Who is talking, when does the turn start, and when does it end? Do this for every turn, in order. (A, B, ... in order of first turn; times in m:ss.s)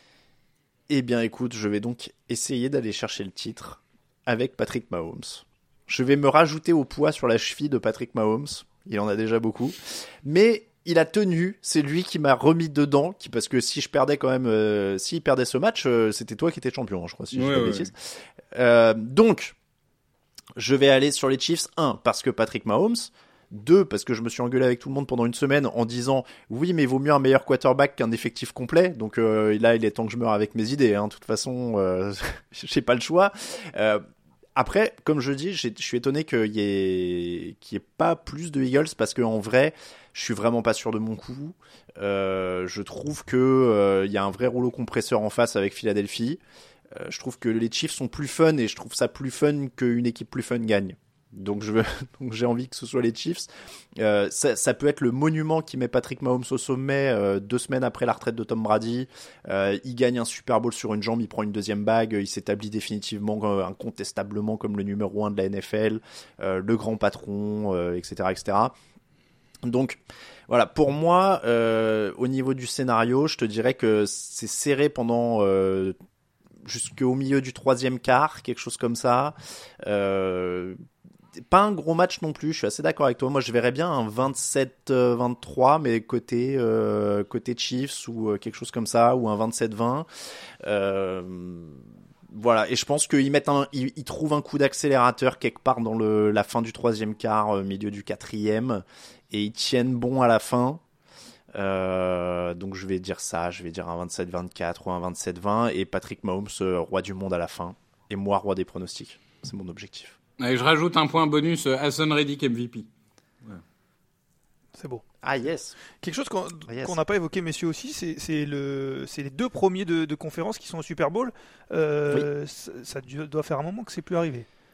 0:00.9-0:18.0 A
0:17.3-0:17.9 B
0:18.5-0:19.6 A
0:20.6-0:34.0 A
0:34.6-0:46.4 A
0:46.9-1:08.8 A
1:09.6-1:16.0 A
1:16.6-1:20.8 A
1:21.5-1:30.1 A
1:30.6-1:40.8 A
1:41.6-1:50.2 A
1:50.4-1:52.9 B
1:54.8-1:55.0 C
1:55.2-1:55.8 A
1:56.0-2:04.5 C
1:56.7-1:57.0 A